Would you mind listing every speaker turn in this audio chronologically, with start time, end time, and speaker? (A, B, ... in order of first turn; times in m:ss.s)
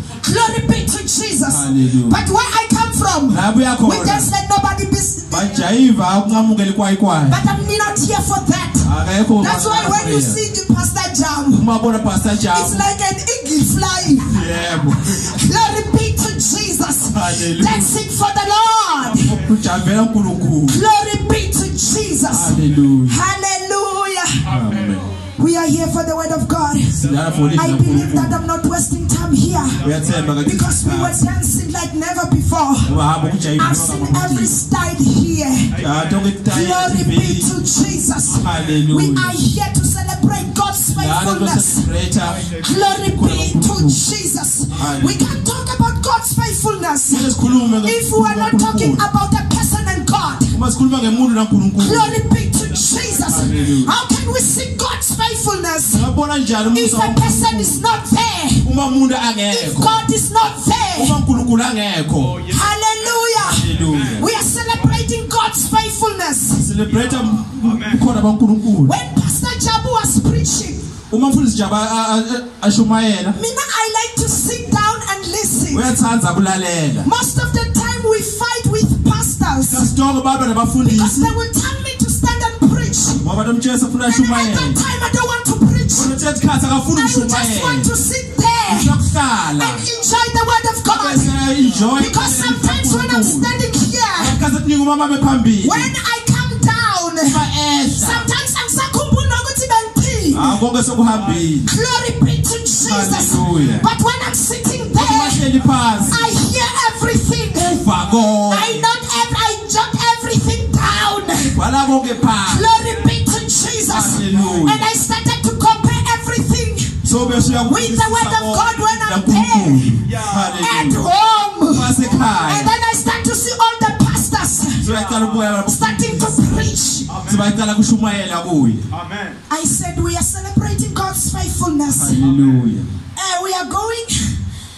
0:00.2-0:05.6 A
0:01.5-0:02.2 B
0:03.3-0:04.3 B
0:05.3-0:07.4 B
0:07.3-0:11.6 A
0:08.8-0:10.4 B
0:11.5-0:12.8 B
0:12.5-0:14.4 A
0:14.1-0:15.4 B
0:15.0-0:19.3 A
0:17.1-0:17.9 B
0:19.0-0:19.7 C
0:19.1-0:20.8 B
0:20.7-0:24.4 A
0:22.3-0:23.2 B
0:24.4-0:25.2 C
0:24.5-0:25.1 B
0:25.4-0:27.0 A
0:27.0-0:28.4 B
0:27.0-0:28.2 C
0:27.5-0:29.8 A
0:29.7-0:30.7 C
0:29.8-0:31.2 B
0:30.4-0:32.9 A
0:32.8-0:34.5 B
0:32.9-0:33.4 C
0:33.6-0:35.7 A
0:35.7-0:36.4 C
0:35.8-0:37.5 B
0:36.5-0:41.9 A
0:38.3-0:38.8 C
0:38.4-0:39.4 B
0:41.0-0:44.0 B
0:42.2-0:42.9 C
0:42.6-0:50.5 A
0:44.7-0:45.4 C
0:44.8-0:45.2 B
0:47.1-0:49.0 B
0:47.4-0:47.8 C
0:50.5-0:52.2 B
0:50.9-0:51.4 C
0:51.8-0:56.1 A
0:52.6-0:53.8 C
0:53.3-0:54.0 B
0:55.9-0:57.9 B
0:56.7-0:58.6 A
0:58.6-1:00.0 B
0:59.5-1:01.2 A
1:01.0-1:02.4 B
1:02.2-1:05.0 C
1:02.5-1:06.7 A
1:03.4-1:04.3 B
1:06.5-1:09.0 B
1:06.9-1:08.1 C
1:08.8-1:10.9 A
1:11.1-1:13.4 B
1:13.4-1:15.9 A
1:15.7-1:17.1 B
1:17.0-1:19.9 A
1:19.7-1:21.3 B
1:20.8-1:23.2 A
1:23.2-1:24.8 B
1:24.0-1:26.2 A
1:26.0-1:27.9 B
1:26.9-1:29.0 A
1:28.7-1:29.8 B
1:29.6-1:31.4 A
1:30.9-1:33.6 B
1:31.6-1:31.9 C
1:32.0-1:34.4 A
1:34.2-1:35.9 B
1:35.6-1:40.5 A
1:37.2-1:38.3 B
1:40.3-1:41.7 B
1:41.1-1:41.5 C
1:41.7-1:45.4 A
1:42.9-1:43.8 B
1:43.3-1:43.9 C
1:44.9-1:46.3 B
1:45.6-1:46.3 C
1:46.1-1:47.9 A
1:47.7-1:48.8 B
1:48.5-1:51.6 A
1:51.5-1:52.7 B
1:52.4-1:57.0 A
1:52.8-1:53.1 C
1:53.9-1:54.9 B
1:54.2-1:54.7 C
1:57.0-2:01.0 B
1:57.2-1:57.6 C
1:57.7-2:00.0 A
2:00.0-2:00.6 C
2:00.5-2:04.8 A
2:01.7-2:02.7 B
2:02.0-2:02.7 C
2:04.8-2:05.6 C
2:04.8-2:06.6 B
2:05.7-2:07.1 A
2:07.1-2:07.6 C
2:07.2-2:08.9 B
2:08.9-2:09.4 C
2:09.5-2:12.2 A
2:11.9-2:12.9 B
2:12.2-2:12.7 C
2:13.2-2:14.3 A